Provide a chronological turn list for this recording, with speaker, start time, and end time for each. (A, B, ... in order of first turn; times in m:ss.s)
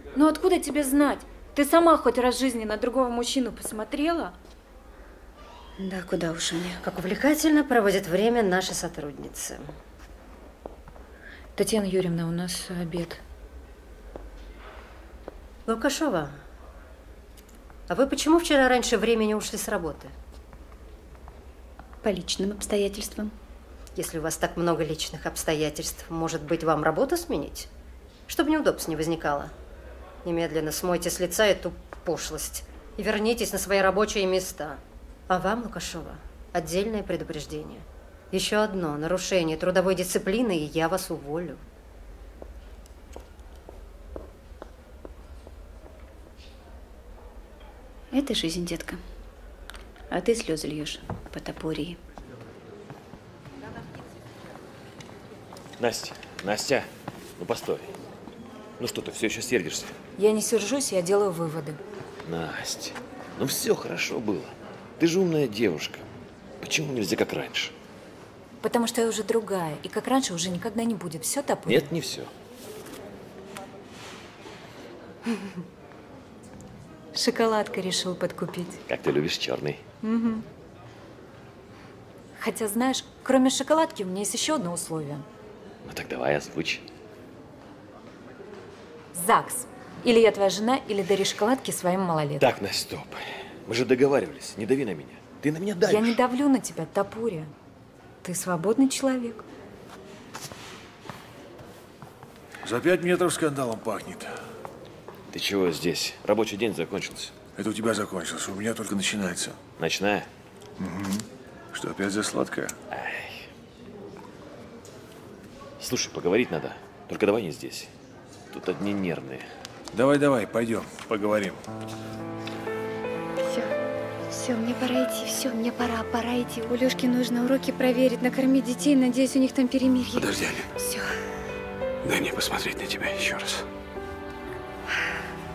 0:00.1-0:04.3 A
0:05.8-0:06.8 B
0:06.8-0:09.7 C
0:11.6-0:13.2 A
0:15.6-0:16.4 C
0:17.9-0:20.1 C
0:22.0-0:23.3 B
0:24.0-0:27.7 C
0:28.3-0:29.5 C
0:30.2-0:41.6 C
0:48.1-0:49.0 B
0:50.1-0:52.0 B
0:55.8-0:57.9 D
0:58.8-1:00.0 D
1:00.2-1:01.8 A
1:02.2-1:06.0 D
1:06.6-1:07.7 D
1:08.6-1:11.9 A
1:11.6-1:12.3 D
1:17.1-1:18.8 A
1:18.9-1:19.8 D
1:20.0-1:20.4 A
1:22.4-1:25.2 A
1:25.8-1:26.8 D
1:29.1-1:32.5 A
1:32.4-1:36.2 D
1:35.8-1:37.5 A
1:38.2-1:39.4 A
1:42.6-1:44.4 E
1:45.3-1:47.4 D
1:47.6-1:49.6 E
1:49.8-1:50.3 D
1:50.8-1:52.7 E
1:52.9-1:53.5 D
1:55.8-1:57.9 D
1:58.5-1:59.4 D
1:59.9-2:01.6 E
2:03.4-2:03.7 B
2:04.3-2:11.1 B
2:10.2-2:10.7 F
2:12.0-2:13.6 F